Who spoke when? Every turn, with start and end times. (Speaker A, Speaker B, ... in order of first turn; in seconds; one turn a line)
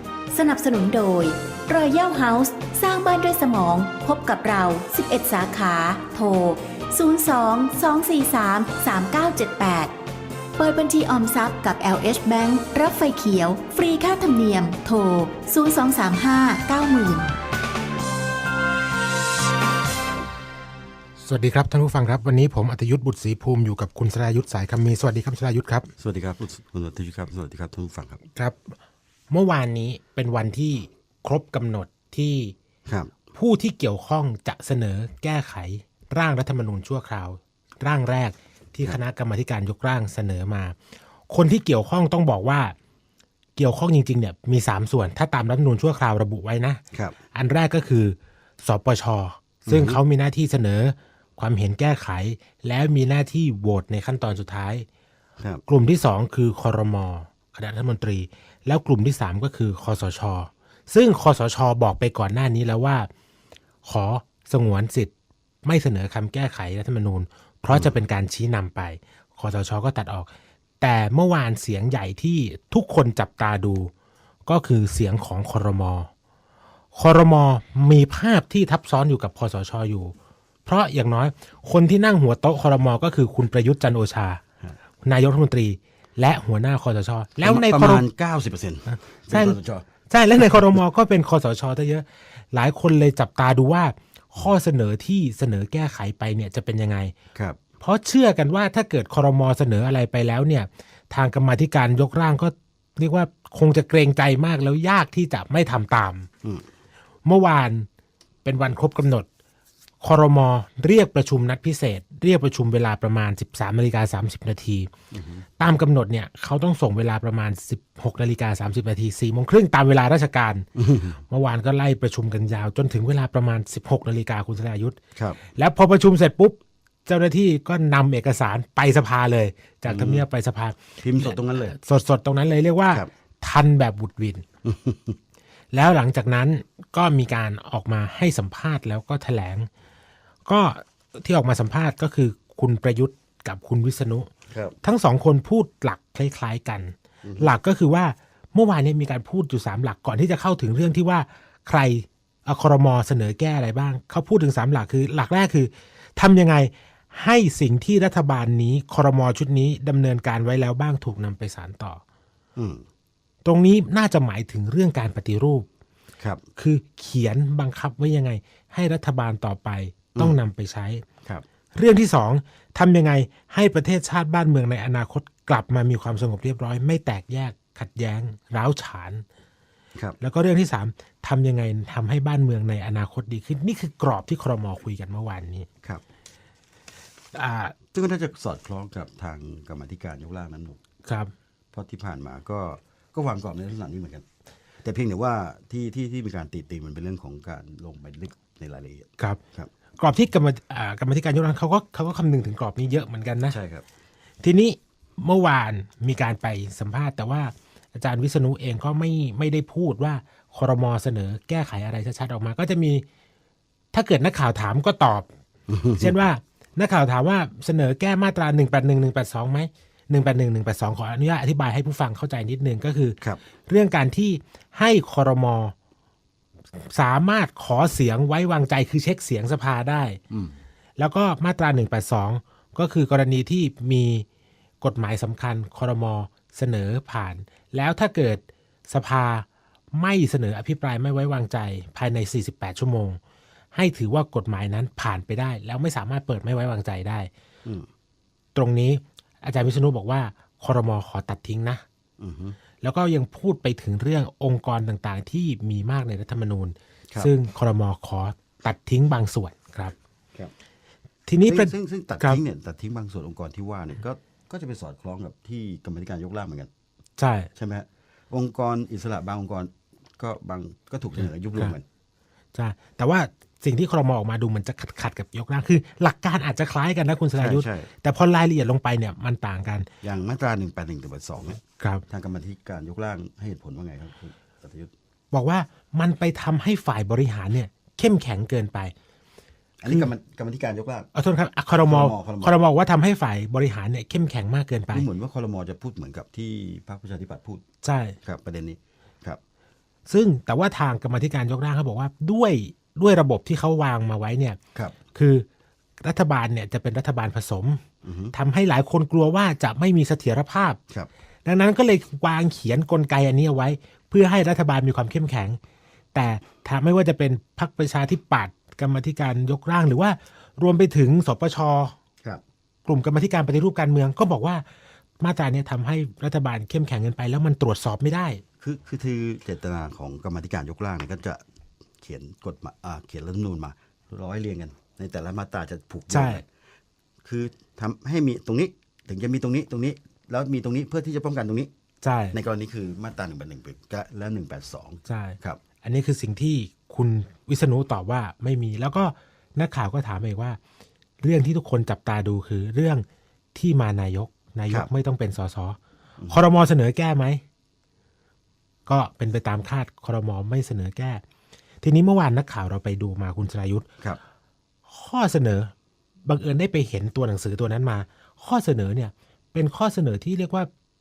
Speaker A: 0.3-9.9
Speaker A: 10.6-17.3
Speaker B: 21.2-25.9
Speaker C: 26.0-28.2
Speaker B: 28.4-28.8
Speaker B: 29.3-32.5
Speaker C: 32.9-33.2
Speaker B: 33.3-40.8
Speaker B: 41.3-42.7
Speaker B: 43.6-46.8
Speaker B: 47.3-54.9
Speaker C: 49.7-50.0
Speaker B: 55.7-63.1
Speaker B: 63.8-65.1
Speaker B: 65.6-70.3
Speaker B: 70.8-73.9
Speaker B: 74.5-76.1
Speaker B: 76.9-80.1
Speaker B: 80.7-84.4
Speaker B: 85.0-88.0
Speaker C: 87.4-89.8
Speaker B: 88.9-89.6
Speaker B: 90.1-97.1
Speaker B: 97.8-106.3
Speaker B: 107.2-107.9
Speaker B: 108.4-109.3
Speaker B: 110.0-114.9
Speaker C: 115.1-115.5
Speaker B: 115.6-120.7
Speaker C: 120.8-121.2
Speaker B: 121.3-125.0
Speaker C: 125.2-125.4
Speaker B: 125.5-134.4
Speaker C: 129.9-130.2
Speaker C: 131.0-131.8
Speaker C: 134.6-135.2
Speaker B: 135.7-139.7
Speaker B: 140.4-144.3
Speaker C: 144.5-144.8
Speaker B: 144.8-162.0
Speaker C: 147.2-147.5
Speaker C: 162.6-162.8
Speaker B: 163.4-165.7
Speaker B: 166.6-171.0
Speaker B: 171.8-179.2
Speaker B: 180.2-185.7
Speaker B: 187.3-187.7
Speaker C: 187.9-190.8
Speaker B: 191.1-191.3
Speaker C: 191.7-194.2
Speaker C: 194.8-199.7
Speaker B: 200.0-203.6
Speaker C: 203.5-203.8
Speaker B: 204.4-213.0
Speaker B: 213.9-215.3
Speaker C: 215.7-216.1
Speaker B: 216.0-223.2
Speaker B: 223.7-225.7
Speaker B: 226.7-230.2
Speaker C: 230.3-230.6
Speaker B: 231.0-234.2
Speaker B: 234.8-243.2
Speaker B: 243.7-247.3
Speaker B: 248.5-251.8
Speaker C: 252.2-252.6
Speaker B: 252.8-259.9
Speaker B: 261.3-262.4
Speaker C: 261.4-266.7
Speaker B: 267.2-267.5
Speaker C: 267.6-271.8
Speaker B: 272.5-279.9
Speaker C: 277.4-277.9
Speaker C: 280.0-284.9
Speaker B: 285.3-288.9
Speaker C: 289.8-291.1
Speaker B: 291.1-295.1
Speaker C: 291.7-292.6
Speaker C: 294.9-297.6
Speaker B: 297.8-298.2
Speaker C: 298.2-299.4
Speaker B: 300.1-304.6
Speaker B: 305.1-305.4
Speaker B: 306.0-307.8
Speaker C: 308.0-308.3
Speaker B: 308.3-310.8
Speaker B: 311.4-315.6
Speaker B: 316.1-321.9
Speaker B: 322.9-324.6
Speaker B: 325.2-328.4
Speaker C: 328.6-331.4
Speaker C: 332.0-336.5
Speaker B: 336.1-336.4
Speaker C: 337.2-341.7
Speaker B: 342.0-342.4
Speaker C: 342.3-345.6
Speaker B: 345.1-350.6
Speaker B: 351.2-355.8
Speaker B: 356.3-357.4
Speaker B: 358.9-361.2
Speaker B: 361.8-363.9
Speaker B: 364.9-365.7
Speaker B: 366.2-370.7